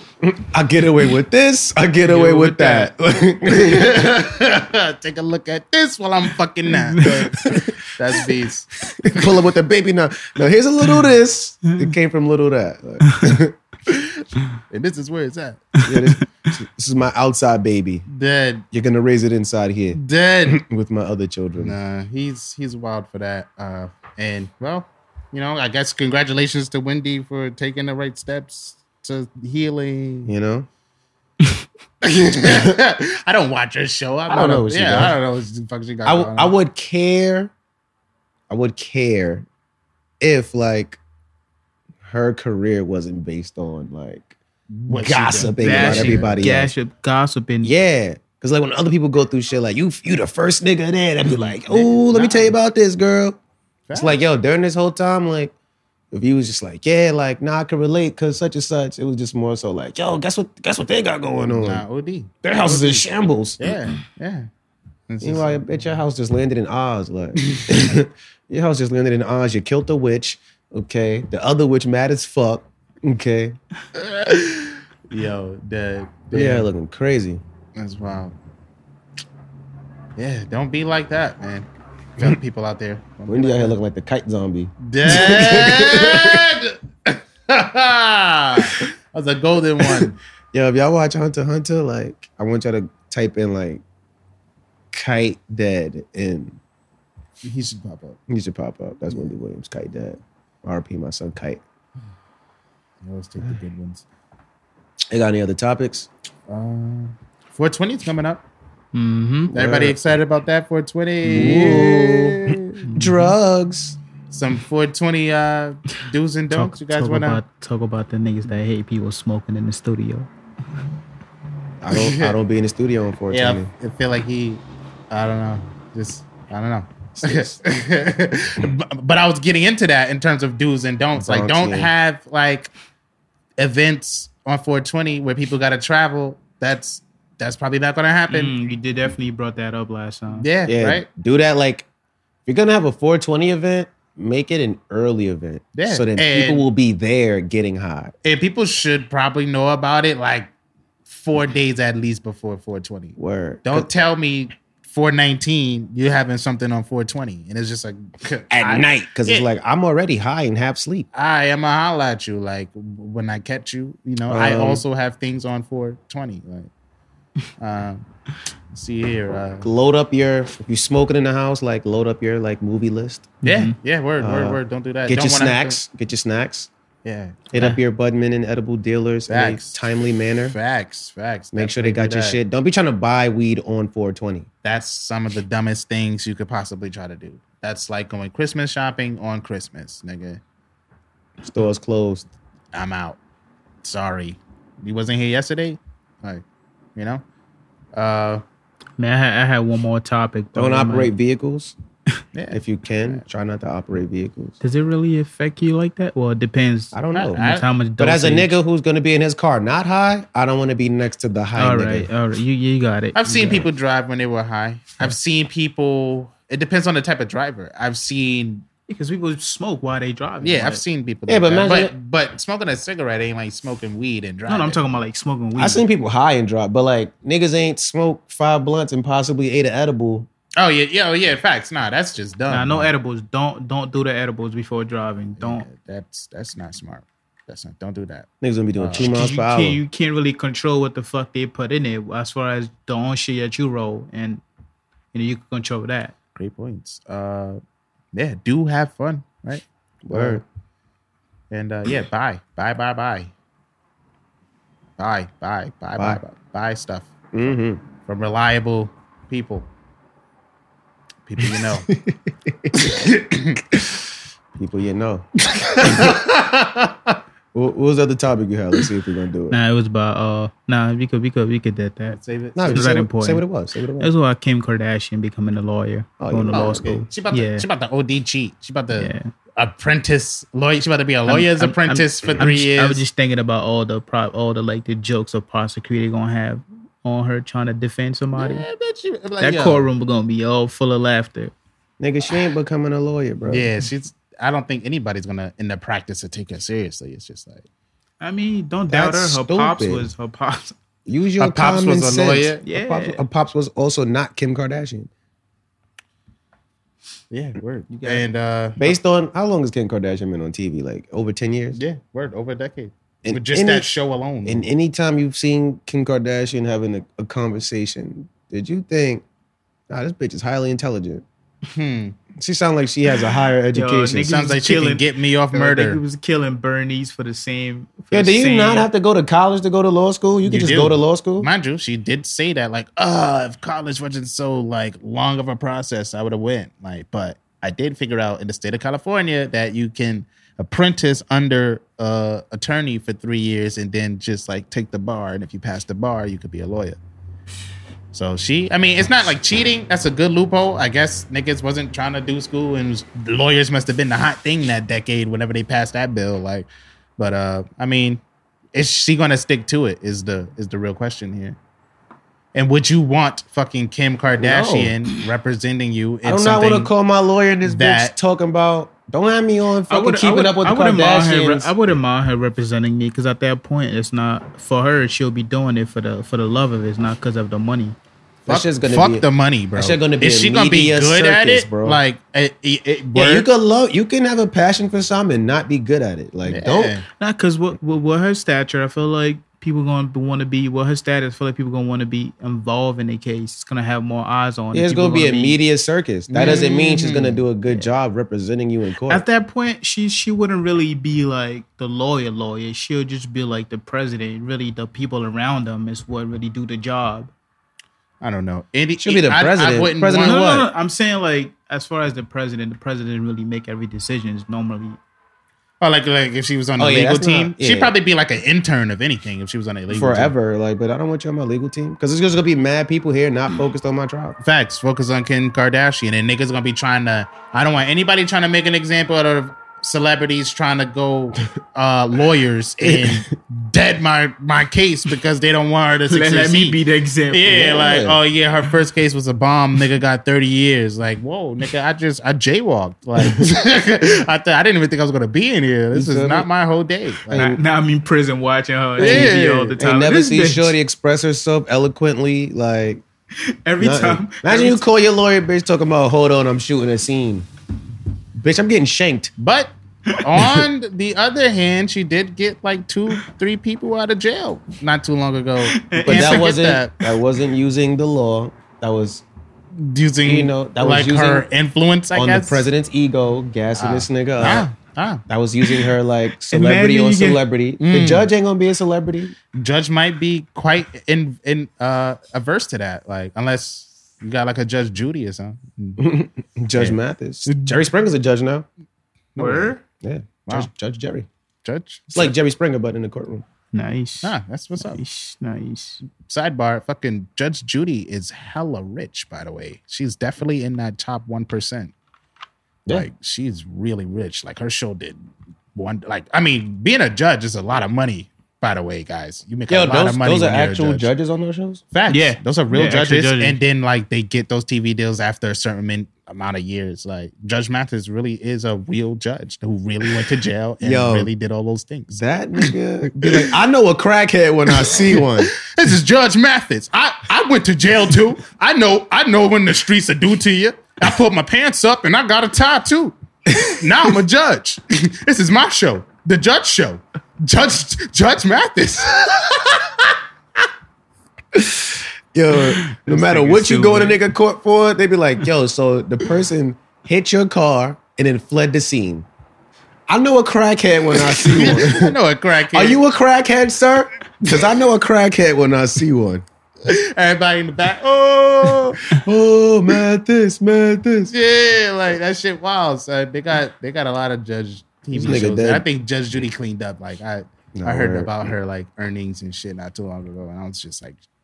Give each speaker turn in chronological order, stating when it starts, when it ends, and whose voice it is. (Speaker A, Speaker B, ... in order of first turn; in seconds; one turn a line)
Speaker A: 0.2-4.2
Speaker B: 2.0-2.9
Speaker C: 3.5-8.7
Speaker B: 6.7-7.6
Speaker A: 7.5-7.7
Speaker A: 9.0-14.2
Speaker B: 13.1-13.4
Speaker C: 14.7-15.8
Speaker A: 15.8-18.1
Speaker C: 18.1-18.7
Speaker A: 18.7-21.8
Speaker C: 19.9-20.6
Speaker C: 21.6-30.3
Speaker A: 30.3-30.7
Speaker C: 32.0-36.5
Speaker A: 32.5-32.7
Speaker A: 34.3-35.2
Speaker A: 36.0-37.5
Speaker A: 38.5-39.5
Speaker A: 40.2-41.0
Speaker A: 42.0-44.4
Speaker C: 44.7-46.5
Speaker A: 44.9-46.7
Speaker B: 45.6-47.7
Speaker A: 47.6-53.4
Speaker C: 51.6-52.5
Speaker C: 53.9-54.2
Speaker A: 54.0-55.5
Speaker A: 56.1-61.8
Speaker C: 61.5-64.5
Speaker A: 62.4-63.8
Speaker C: 65.1-66.0
Speaker A: 65.2-73.6
Speaker C: 67.4-68.0
Speaker C: 74.0-76.7
Speaker A: 76.3-77.4
Speaker C: 77.8-78.3
Speaker C: 80.2-83.8
Speaker A: 83.3-86.5
Speaker C: 84.8-90.2
Speaker A: 89.9-93.8
Speaker A: 94.9-96.6
Speaker C: 97.4-98.2
Speaker A: 98.3-101.6
Speaker C: 103.0-104.0
Speaker A: 105.1-106.1
Speaker C: 106.5-108.5
Speaker B: 108.9-109.5
Speaker A: 109.5-110.0
Speaker C: 109.5-112.8
Speaker A: 111.2-114.0
Speaker B: 111.3-111.7
Speaker B: 112.9-113.3
Speaker C: 114.3-117.4
Speaker B: 116.5-120.3
Speaker A: 121.8-123.7
Speaker C: 121.9-122.4
Speaker C: 123.3-132.7
Speaker A: 127.2-127.6
Speaker A: 131.2-131.9
Speaker C: 133.6-138.6
Speaker B: 138.3-140.5
Speaker C: 140.3-141.1
Speaker A: 140.7-141.9
Speaker A: 142.5-148.2
Speaker C: 145.8-146.7
Speaker C: 148.2-150.5
Speaker C: 151.1-159.5
Speaker A: 153.2-153.9
Speaker A: 158.5-161.1
Speaker C: 161.1-166.7
Speaker A: 164.3-164.8
Speaker C: 167.6-168.1
Speaker C: 168.7-169.7
Speaker A: 169.6-173.3
Speaker B: 173.4-173.8
Speaker C: 173.4-175.8
Speaker A: 174.2-176.7
Speaker C: 177.1-177.5
Speaker A: 177.5-180.6
Speaker C: 179.3-179.9
Speaker C: 180.4-182.4
Speaker A: 181.5-184.5
Speaker C: 184.6-190.4
Speaker A: 191.4-192.3
Speaker C: 192.7-193.2
Speaker C: 193.8-196.4
Speaker C: 197.0-197.2
Speaker C: 197.9-198.4
Speaker B: 199.0-201.1
Speaker A: 200.6-201.7
Speaker C: 202.3-203.2
Speaker A: 202.5-204.6
Speaker B: 204.6-208.5
Speaker A: 206.9-207.4
Speaker C: 207.1-207.7
Speaker A: 208.0-212.1
Speaker B: 211.6-213.7
Speaker C: 213.2-218.7
Speaker B: 218.9-220.8
Speaker C: 220.4-225.0
Speaker A: 221.3-221.9
Speaker B: 224.5-225.8
Speaker A: 225.6-230.3
Speaker C: 230.6-232.9
Speaker B: 232.5-235.7
Speaker C: 235.4-239.2
Speaker A: 238.4-239.8
Speaker B: 239.0-244.4
Speaker B: 245.1-246.1
Speaker C: 246.4-247.6
Speaker C: 248.1-250.4
Speaker A: 250.0-250.4
Speaker C: 251.5-253.3
Speaker C: 255.0-257.2
Speaker A: 257.3-257.8
Speaker C: 258.0-259.7
Speaker C: 261.3-261.9
Speaker A: 261.4-262.8
Speaker C: 262.8-263.6
Speaker A: 264.6-266.8
Speaker C: 265.5-266.3
Speaker A: 267.5-269.6
Speaker B: 269.5-273.4
Speaker C: 272.1-272.9
Speaker A: 272.6-274.1
Speaker B: 274.0-277.7
Speaker A: 276.2-277.1
Speaker C: 276.5-283.0
Speaker B: 279.0-279.3
Speaker B: 281.3-288.7
Speaker C: 288.4-289.9
Speaker B: 289.4-291.5
Speaker A: 292.0-293.7
Speaker C: 293.5-297.6
Speaker B: 298.2-300.8
Speaker A: 298.9-300.1
Speaker A: 301.1-305.1
Speaker C: 301.4-302.6
Speaker B: 302.6-303.2
Speaker C: 307.3-309.0
Speaker B: 307.9-308.3
Speaker A: 308.8-311.8
Speaker C: 311.8-314.7
Speaker A: 313.2-313.9
Speaker A: 314.4-319.2
Speaker A: 319.9-321.2
Speaker C: 321.7-322.2
Speaker A: 322.4-324.3
Speaker B: 323.7-328.9
Speaker C: 324.1-326.0
Speaker A: 328.1-331.5
Speaker C: 330.5-347.0
Speaker C: 348.1-358.2
Speaker C: 358.7-361.6
Speaker C: 362.5-366.9
Speaker A: 364.4-364.9
Speaker A: 366.2-371.8
Speaker C: 367.6-368.1
Speaker B: 369.9-378.0
Speaker A: 378.5-382.0
Speaker C: 378.5-383.5
Speaker A: 383.1-387.0
Speaker C: 386.5-387.1
Speaker B: 387.2-395.6
Speaker A: 394.7-399.2
Speaker C: 396.3-397.4
Speaker B: 399.1-407.3
Speaker C: 408.2-410.4
Speaker A: 409.0-410.7
Speaker B: 410.2-415.0
Speaker C: 415.8-420.3
Speaker A: 416.8-417.9
Speaker A: 419.9-424.4
Speaker C: 424.4-436.8
Speaker A: 432.8-433.2
Speaker B: 436.1-437.6
Speaker C: 437.3-447.5
Speaker A: 437.5-438.2
Speaker A: 443.2-443.4
Speaker A: 445.9-446.5
Speaker A: 447.3-447.6
Speaker B: 447.3-450.8
Speaker C: 449.0-449.8
Speaker A: 449.0-453.0
Speaker B: 453.4-454.8
Speaker A: 453.8-457.5
Speaker A: 458.4-459.3
Speaker C: 459.4-467.0
Speaker B: 465.7-466.6
Speaker A: 466.0-469.2
Speaker C: 469.8-472.7
Speaker A: 470.2-471.5
Speaker A: 472.1-474.7
Speaker C: 473.8-475.2
Speaker A: 475.3-479.4
Speaker B: 476.5-477.4
Speaker C: 477.8-478.3
Speaker C: 479.5-486.0
Speaker A: 486.0-488.7
Speaker C: 486.7-487.9
Speaker C: 489.4-489.8
Speaker B: 489.4-489.8
Speaker A: 490.0-491.3
Speaker C: 491.6-492.4
Speaker A: 492.1-493.4
Speaker B: 493.7-496.0
Speaker C: 494.2-495.0
Speaker C: 496.2-501.9
Speaker C: 502.9-505.2
Speaker C: 505.8-511.1
Speaker A: 509.7-511.8
Speaker C: 511.9-522.2
Speaker B: 512.1-513.6
Speaker A: 520.8-521.3
Speaker A: 522.2-525.5
Speaker C: 523.2-523.5
Speaker C: 524.8-540.1
Speaker A: 533.5-533.8
Speaker A: 541.5-549.3
Speaker B: 542.6-544.2
Speaker A: 550.1-552.2
Speaker C: 551.5-553.0
Speaker A: 552.7-556.5
Speaker C: 556.8-559.1
Speaker A: 559.1-561.3
Speaker C: 561.3-571.2
Speaker A: 565.1-565.9
Speaker A: 567.8-568.5